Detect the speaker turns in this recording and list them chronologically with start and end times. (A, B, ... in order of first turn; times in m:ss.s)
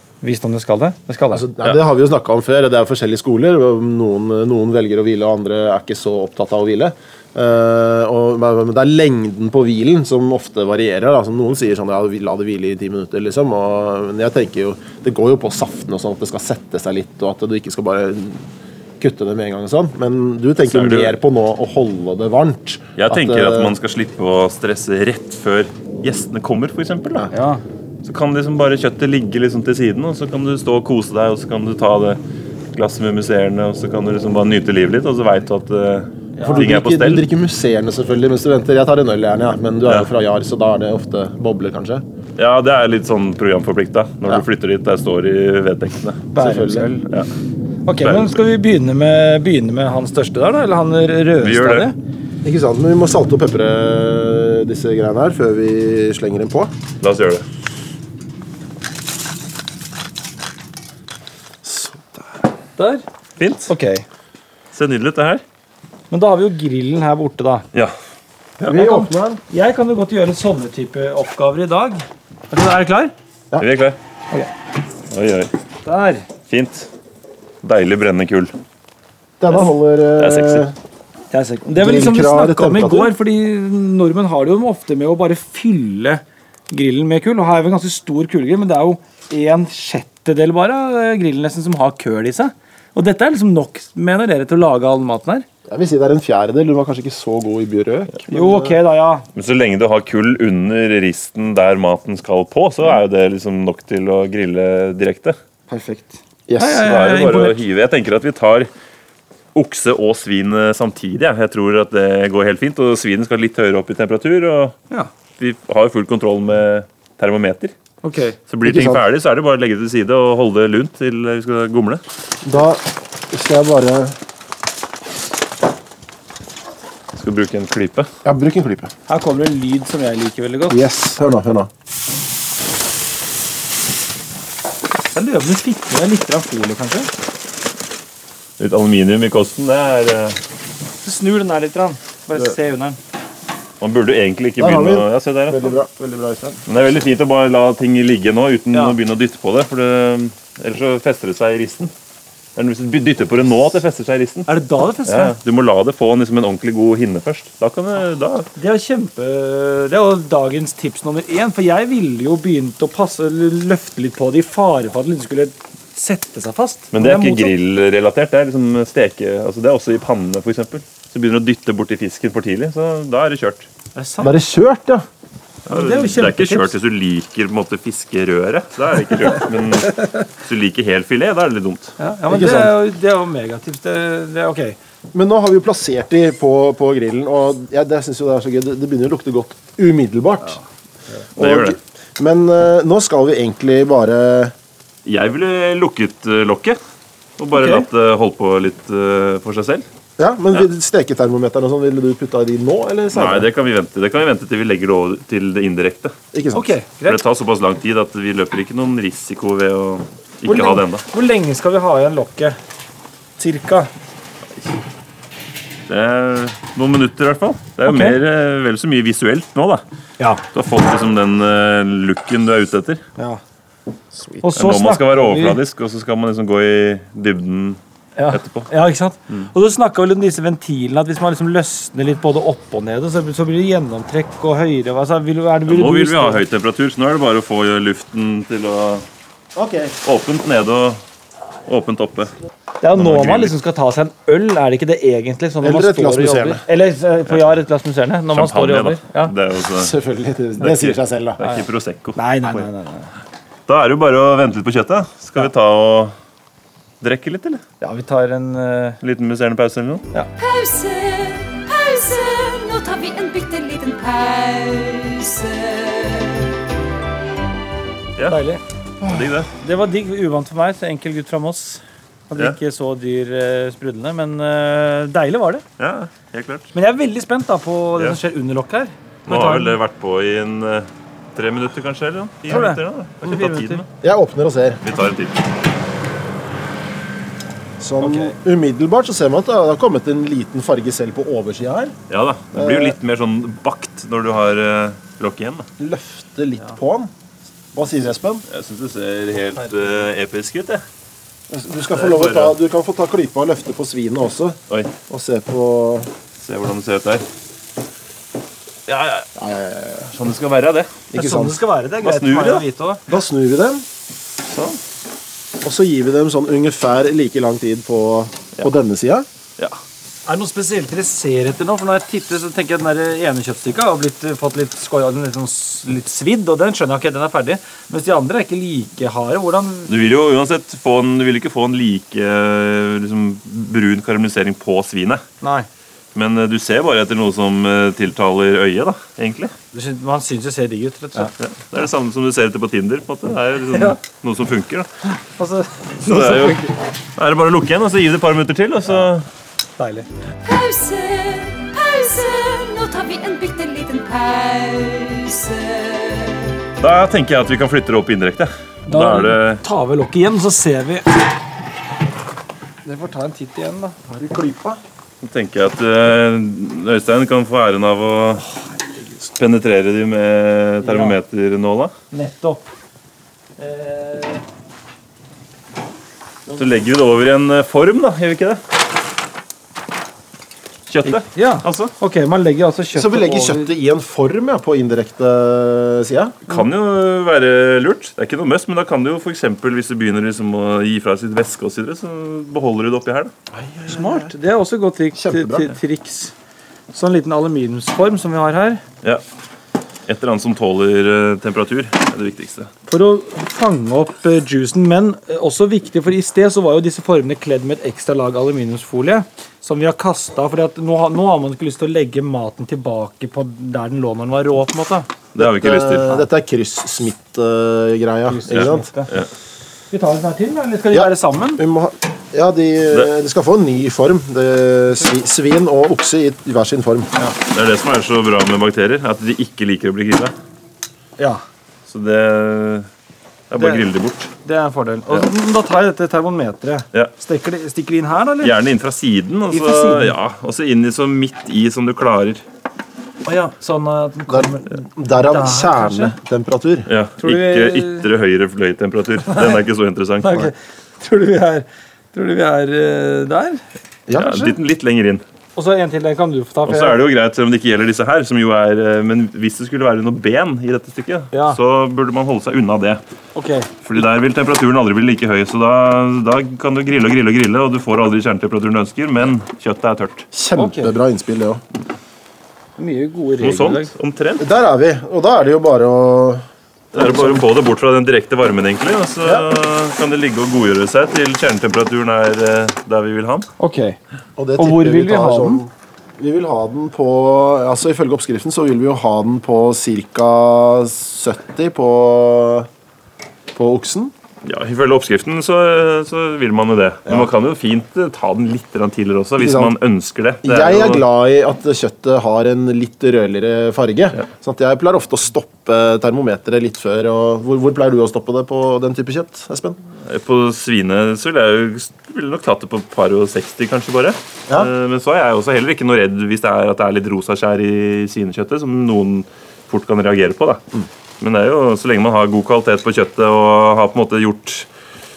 0:00.2-0:01.5 A
0:01.3-0:23.7 B
0:20.6-0:21.2 C
0:23.0-0:27.3 C
0:27.3-0:27.6 A
0:28.0-0:32.2 C
0:32.7-0:37.2 C
0:36.3-0:36.7 A
0:36.4-0:42.0 B
0:42.4-0:46.3 C
0:46.3-0:47.0 A
0:46.4-0:46.9 B
0:47.8-0:51.9 A
0:48.0-0:48.4 C
0:51.4-0:51.9 C
0:52.4-0:56.7 B
0:57.0-0:57.4 C
1:01.6-1:02.4 B
1:02.8-1:03.0 A
1:03.4-1:03.7 C
1:03.7-1:04.0 A
1:04.7-1:05.4 C
1:06.1-1:07.6 A
1:08.6-1:09.4 B
1:08.7-1:13.1 A
1:13.6-1:14.0 C
1:15.1-1:15.5 C
1:15.8-1:16.2 A
1:16.5-1:16.9 C
1:17.6-1:18.5 C
1:19.4-1:20.7 B
1:20.2-1:20.6 C
1:21.3-1:35.4 A
1:21.7-1:23.1 B
1:35.7-1:38.8 B
1:38.3-1:39.2 A
1:39.3-1:45.4 C
1:45.7-1:47.6 A
1:46.5-1:46.9 B
1:46.8-1:48.7 C
1:49.5-1:54.8 C
1:55.4-1:57.7 C
1:58.0-1:58.4 A
1:58.5-2:02.0 C
1:58.6-1:59.0 B
2:02.4-2:04.2 B
2:07.1-2:08.1 C
2:08.2-2:08.9 B
2:09.1-2:10.8 A
2:10.7-2:11.7 B
2:15.1-2:17.1 A
2:18.6-2:20.4 C
2:21.0-2:23.0 A
2:23.8-2:25.7 C
2:24.6-2:26.6 B
2:26.7-2:31.9 C
2:32.6-2:34.5 C
2:34.5-2:35.4 A
2:35.0-2:38.5 C
2:38.6-2:47.5 A
2:46.9-2:53.7 C
2:53.9-2:54.4 A
2:54.2-2:55.0 B
2:55.7-2:56.7 A
2:55.7-3:01.9 C
3:02.0-3:04.8 A
3:02.3-3:02.7 B
3:05.1-3:10.6 B
3:11.4-3:11.8 C
3:11.4-3:14.5 B
3:15.0-3:16.8 C
3:17.4-3:19.8 C
3:17.5-3:17.8 A
3:20.2-3:23.5 B
3:23.1-3:26.1 C
3:26.3-3:26.7 B
3:26.5-3:27.2 A
3:27.0-3:31.0 C
3:30.4-3:32.6 A
3:33.4-3:33.9 A
3:35.9-3:39.8 C
3:37.8-3:38.2 A
3:40.5-3:43.0 C
3:44.1-3:44.4 B
3:44.4-3:45.6 A
3:44.5-3:48.7 C
3:48.2-3:56.4 A
3:55.7-3:59.0 C
3:59.5-4:00.0 B
4:00.0-4:01.0 C
4:01.7-4:02.3 C
4:02.8-4:09.3 A
4:02.9-4:03.5 C
4:05.6-4:06.6 B
4:08.3-4:09.9 C
4:09.7-4:11.4 B
4:10.6-4:12.2 C
4:12.2-4:13.1 A
4:13.7-4:16.1 C
4:17.0-4:17.6 C
4:17.8-4:19.0 A
4:19.0-4:20.0 C
4:20.4-4:26.5 D
4:28.2-4:35.6 A
4:29.0-4:29.5 C
4:35.8-4:36.7 C
4:36.7-4:39.8 A
4:39.3-4:43.8 C
4:42.5-4:43.8 A
4:44.0-4:44.8 B
4:44.8-4:45.4 C
4:47.8-4:52.0 B
4:48.0-4:48.3 A
4:52.1-4:55.7 C
4:52.5-4:53.0 B
4:55.8-4:57.1 B
4:57.7-4:58.4 B
4:58.5-5:00.8 C
5:01.5-5:06.1 B
5:01.9-5:02.6 C
5:06.4-5:07.2 C
5:08.9-5:09.3 C
5:09.4-5:10.1 B
5:10.1-5:11.0 C
5:11.1-5:11.6 B
5:11.1-5:13.0 A
5:12.0-5:12.6 C
5:13.1-5:13.8 B
5:14.5-5:14.8 C
5:15.6-5:19.2 B
5:20.2-5:29.9 A
5:29.9-5:35.2 C
5:35.4-5:35.7 A
5:36.1-5:39.5 C
5:39.7-5:41.3 A
5:41.2-5:44.9 C
5:45.4-5:46.7 A
5:46.0-5:49.3 C
5:49.8-5:50.1 A
5:50.4-5:56.5 D
5:56.8-5:59.6 C
5:58.9-6:01.1 A
6:02.8-6:04.3 A
6:04.2-6:04.8 B
6:05.2-6:08.4 C
6:09.2-6:11.9 C
6:10.8-6:11.2 A
6:12.1-6:12.6 A
6:13.6-6:14.4 A
6:16.6-6:18.6 C
6:20.9-6:21.9 C
6:21.0-6:23.7 A
6:22.9-6:26.4 B
6:26.5-6:33.3 C
6:33.5-6:34.3 B
6:33.8-6:36.3 A
6:35.1-6:35.7 B
6:36.9-6:38.8 A
6:40.1-6:42.7 C
6:42.9-6:55.1 A
6:55.3-6:56.2 C
6:55.4-6:58.9 B
6:58.3-6:59.1 A
6:58.5-6:59.3 C
6:59.9-7:01.6 A
7:00.9-7:07.1 B
7:07.4-7:10.3 C
7:11.2-7:11.4 A
7:11.9-7:12.9 C
7:13.5-7:14.3 C
7:13.6-7:13.8 A
7:14.4-7:18.5 A
7:18.4-7:22.4 C
7:19.5-7:20.1 A
7:23.2-7:26.1 A
7:24.3-7:26.9 B
7:26.9-7:30.5 C
7:27.2-7:28.1 A
7:29.3-7:29.6 A
7:30.2-7:33.6 A
7:34.1-7:34.6 B
7:34.1-7:35.2 C
7:35.6-7:37.0 A
7:36.6-7:43.0 C
7:41.3-7:41.6 A
7:43.3-7:43.7 A
7:43.8-7:50.3 C
7:50.3-7:51.6 B
7:50.5-7:50.9 A
7:52.8-7:53.9 A
7:53.4-7:54.4 C
7:54.4-7:57.4 B
7:56.9-8:03.5 C
8:03.6-8:04.0 A
8:04.4-8:12.7 B
8:04.6-8:05.6 A
8:13.5-8:14.1 B
8:14.4-8:21.0 C
8:19.4-8:19.7 B
8:20.4-8:29.8 B
8:30.0-8:40.6 C
8:41.2-8:44.7 C